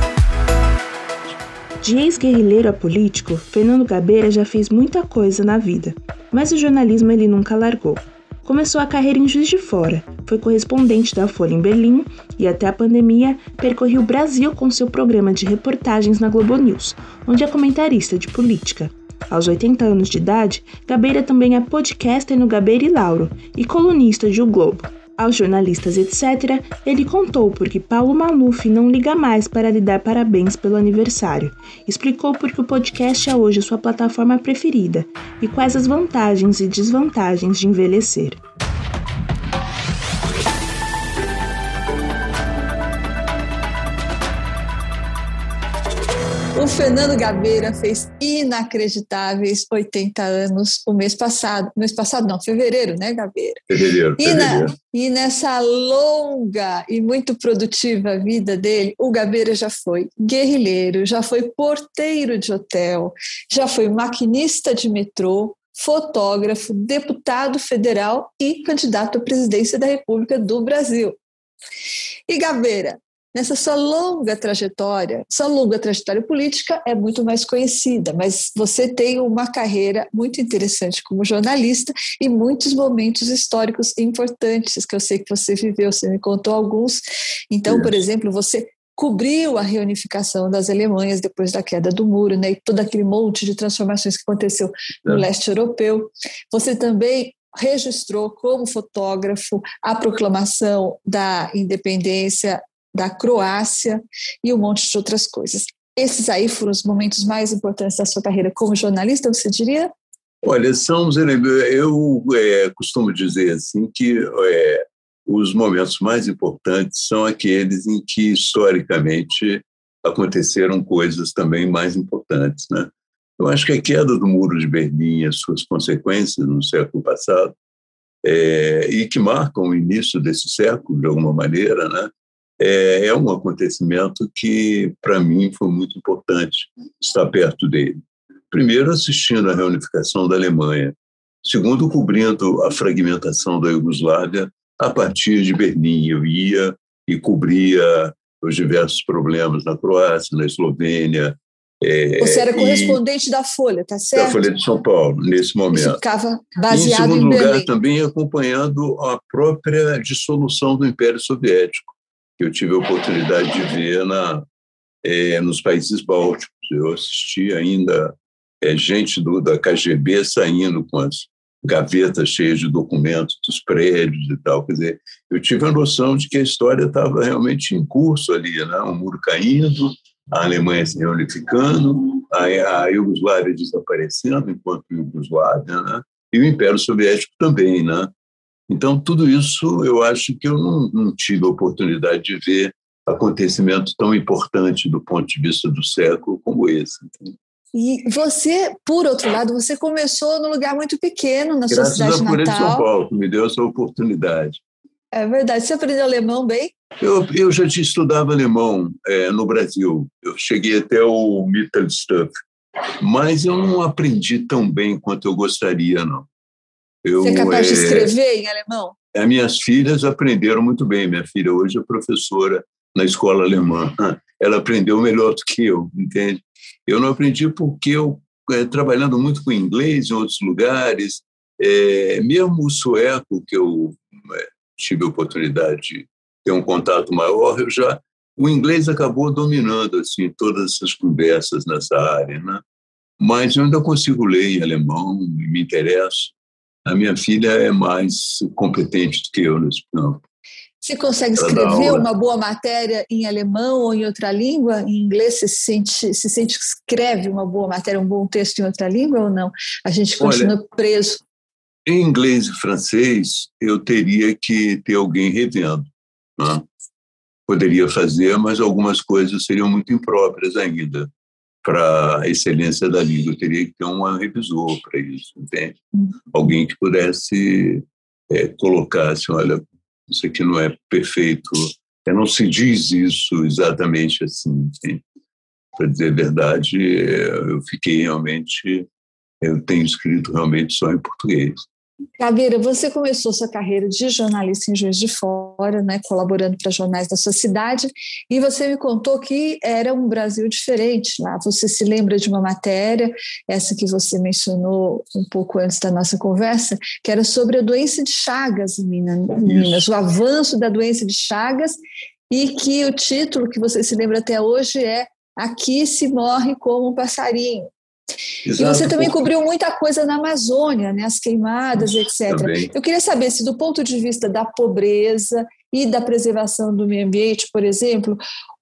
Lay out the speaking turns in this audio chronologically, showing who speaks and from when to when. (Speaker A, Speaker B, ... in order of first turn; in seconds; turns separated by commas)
Speaker A: 1.8-38.4, Speaker B: 46.5-53.6, Speaker C: 53.7-54.7, Speaker B: 54.2-71.2, Speaker B: 72.3-109.9, Speaker C: 87.7-87.9, Speaker C: 110.4-127.5, Speaker C: 128.2-138.0, Speaker C: 138.5-153.0, Speaker B: 152.2-154.4, Speaker C: 154.1-156.0, Speaker B: 155.7-157.7, Speaker C: 156.7-164.4, Speaker C: 165.0-188.1, Speaker C: 188.7-197.3, Speaker B: 197.7-202.9, Speaker C: 201.7-204.6, Speaker B: 205.1-206.7, Speaker C: 207.0-212.3, Speaker C: 213.0-216.3, Speaker C: 217.0-218.1, Speaker B: 217.2-218.9, Speaker C: 219.1-242.6, Speaker C: 243.2-246.3, Speaker C: 246.8-250.2, Speaker B: 250.8-261.2, Speaker C: 251.4-252.1, Speaker C: 260.2-260.5, Speaker C: 261.9-266.6, Speaker C: 267.5-271.1, Speaker C: 271.6-285.0, Speaker C: 285.8-288.9, Speaker C: 289.4-291.6, Speaker B: 292.2-311.8, Speaker C: 309.4-309.8, Speaker B: 312.3-317.7, Speaker C: 318.4-319.2, Speaker B: 318.6-328.2, Speaker C: 322.3-322.7